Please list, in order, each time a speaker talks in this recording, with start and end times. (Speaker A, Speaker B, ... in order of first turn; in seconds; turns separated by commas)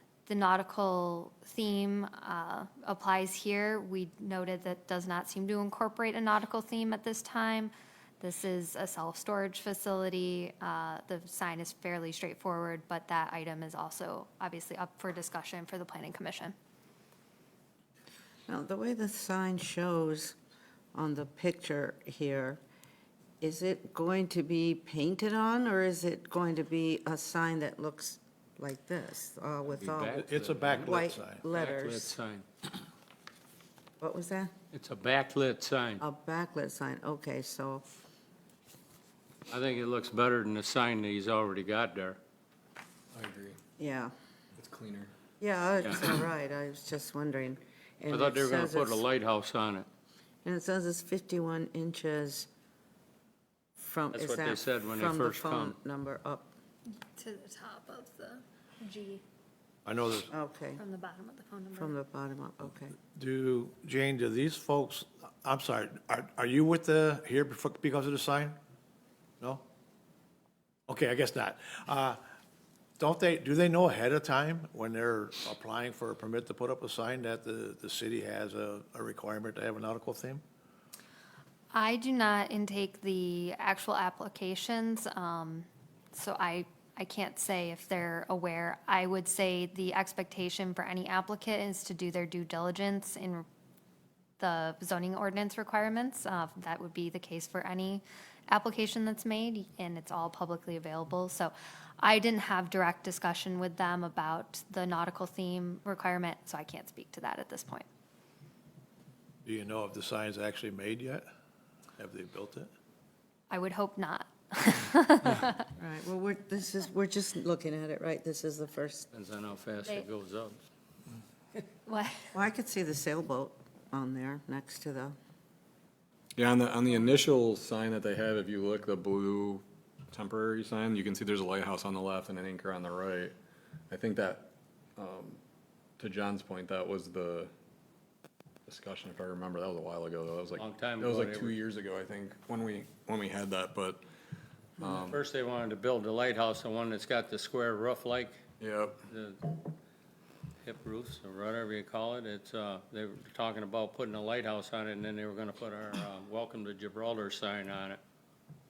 Speaker A: 0.2-16.5, Speaker B: 18.5-20.4, Speaker B: 20.9-22.6, Speaker B: 23.4-32.1, Speaker C: 29.7-30.9, Speaker D: 30.1-31.4, Speaker C: 31.5-32.8, Speaker B: 34.0-34.5, Speaker C: 34.7-36.0, Speaker B: 36.0-37.8, Speaker C: 39.5-42.2, Speaker E: 43.1-43.6, Speaker B: 43.8-44.1, Speaker E: 44.6-45.1, Speaker B: 45.4-49.0, Speaker C: 45.8-46.0, Speaker C: 48.1-49.9, Speaker B: 50.4-52.5, Speaker B: 53.8-56.5, Speaker C: 54.1-55.8, Speaker A: 56.9-59.2, Speaker D: 59.8-60.3, Speaker B: 60.3-60.8, Speaker A: 60.8-61.9, Speaker B: 61.7-63.0, Speaker D: 63.1-68.6, Speaker D: 70.9-72.2, Speaker D: 73.0-80.4, Speaker A: 81.7-93.5, Speaker A: 94.4-107.8, Speaker D: 109.4-111.2, Speaker D: 112.0-112.7, Speaker A: 113.5-115.7, Speaker B: 115.8-119.1, Speaker C: 119.1-120.6, Speaker A: 121.8-122.3, Speaker B: 122.3-125.1, Speaker E: 126.3-133.3, Speaker E: 133.9-135.4, Speaker E: 136.0-137.5, Speaker E: 138.7-144.0, Speaker C: 140.6-141.6, Speaker E: 144.8-145.2, Speaker C: 144.8-148.4, Speaker E: 148.6-149.0, Speaker C: 149.1-149.7, Speaker C: 150.6-158.0